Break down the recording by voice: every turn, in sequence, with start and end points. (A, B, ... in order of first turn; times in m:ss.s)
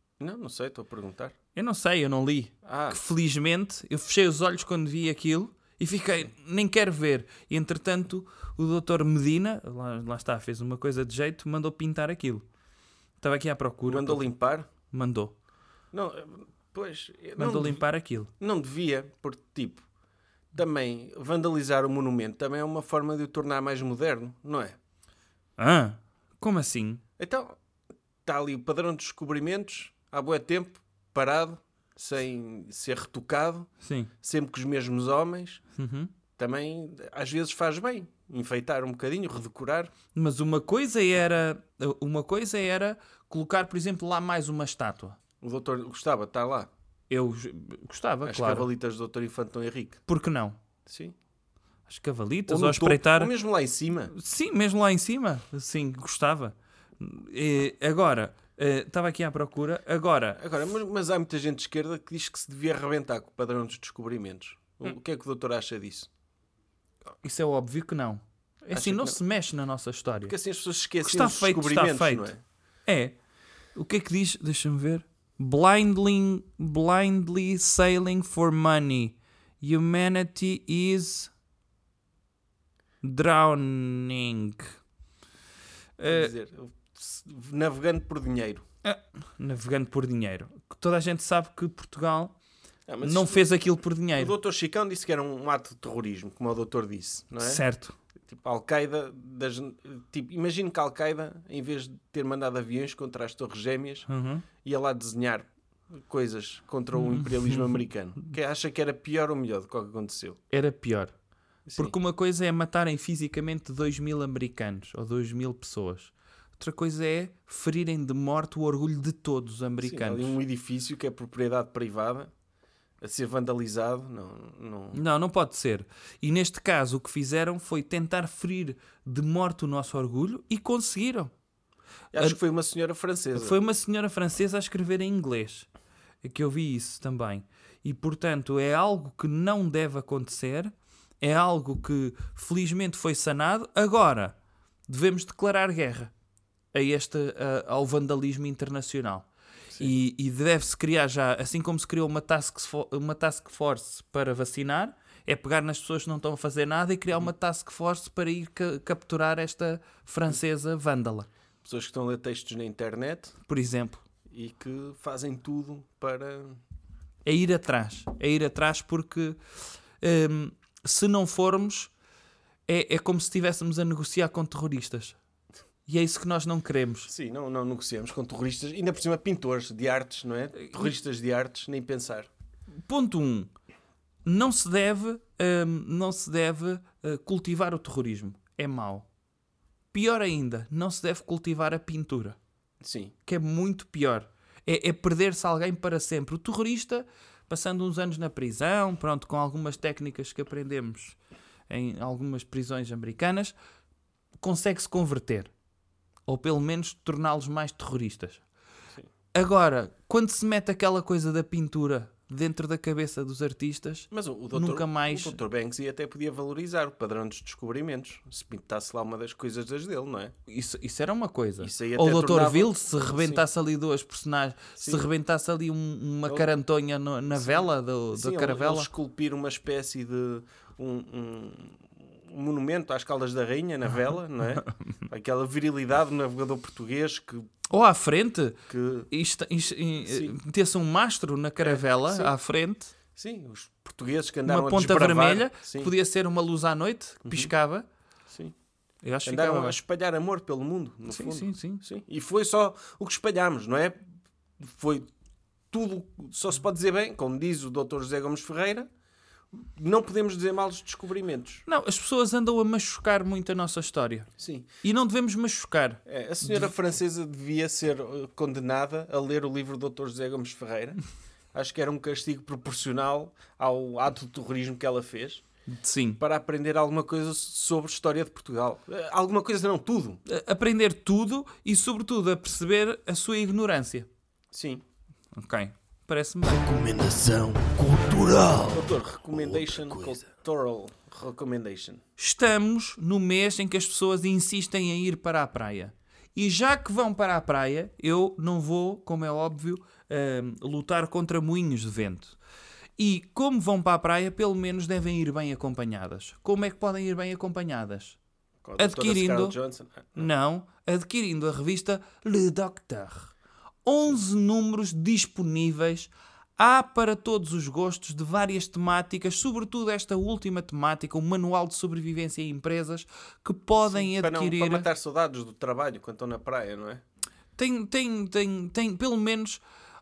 0:00.2-0:01.3 A
0:01.5-0:12.4 B
0:02.6-0:03.0 A
0:13.2-0:14.2 B
0:13.9-0:14.7 A
0:14.9-0:15.3 B
0:15.9-0:17.8 A
0:17.4-0:18.3 B
0:18.4-0:19.8 A
0:20.5-0:24.8 A
0:25.6-0:27.0 B
0:27.2-0:27.6 A
0:28.2-0:33.7 A
0:33.8-0:34.1 B
0:34.2-0:35.6 A
0:35.8-0:36.1 B
0:36.4-0:39.9 A
0:40.1-0:45.2 B
0:45.4-0:46.7 A
0:47.1-0:48.7 B
0:48.2-0:50.0 A
0:50.1-0:50.6 B
0:50.8-0:51.1 A
0:51.9-0:53.3 B
0:52.5-0:54.1 A
0:54.1-1:00.4 B
1:00.4-1:06.1 A
1:07.2-1:10.3 B
1:08.7-1:09.2 A
1:10.3-1:12.4 A
1:11.0-1:12.3 B
1:12.8-1:13.2 B
1:13.7-1:21.3 B
1:23.0-1:24.7 B
1:26.0-1:26.3 B
1:26.0-1:28.6 A
1:28.8-1:32.3 B
1:32.9-1:33.4 A
1:33.0-1:34.3 B
1:34.2-1:37.6 A
1:37.4-1:37.9 B
1:38.3-1:44.1 A
1:44.1-1:44.4 B
1:44.6-1:45.5 A
1:46.0-1:50.4 A
1:46.9-1:47.8 B
1:50.5-1:51.1 B
1:51.6-1:51.9 A
1:51.8-2:00.4 B
1:59.8-2:02.3 A
2:03.0-2:05.0 A
2:04.9-2:11.3 B
2:12.1-2:13.6 A
2:13.4-2:15.7 B
2:16.2-2:24.4 B
2:24.9-2:26.1 B
2:26.7-2:29.3 B
2:29.8-2:41.3 B
2:41.6-2:43.4 A
2:43.4-2:44.0 B
2:44.3-2:46.6 A
2:47.2-2:49.4 B
2:50.0-2:51.9 B
2:52.7-2:55.2 B
2:55.9-2:57.1 B
2:57.1-3:02.3 A
3:02.8-3:03.5 B
3:04.2-3:09.1 B
3:09.9-3:12.4 B
3:12.8-3:13.1 A
3:13.2-3:21.2 B
3:21.7-3:23.5 B
3:24.4-3:25.5 B
3:26.3-3:28.4 B
3:29.3-3:35.4 B
3:34.1-3:40.3 A
3:40.5-3:48.9 B
3:41.6-3:43.4 A
3:44.8-3:45.0 A
3:47.3-3:57.5 A
3:57.7-3:58.6 B
3:58.7-3:59.1 A
3:59.1-4:02.9 B
4:00.0-4:00.3 A
4:01.6-4:02.3 A
4:03.2-4:05.9 A
4:04.4-4:07.8 B
4:07.2-4:07.5 A
4:09.0-4:09.8 B
4:09.2-4:14.0 A
4:11.1-4:11.8 B
4:14.6-4:15.1 A
4:15.7-4:18.9 A
4:19.5-4:21.6 A
4:21.7-4:24.3 B
4:24.4-4:24.7 A
4:24.8-4:26.7 B
4:26.0-4:31.0 A
4:31.5-4:35.4 A
4:35.7-4:36.2 B
4:36.2-4:40.2 A
4:40.2-4:44.1 B
4:44.5-4:44.8 A
4:45.3-4:46.6 B
4:46.4-4:50.2 C
4:48.7-4:52.0 A
4:52.2-5:02.4 B
5:03.0-5:08.2 B
5:08.6-5:10.3 A
5:08.8-5:09.6 B
5:10.2-5:24.9 B
5:23.8-5:27.0 A
5:27.6-5:29.6 B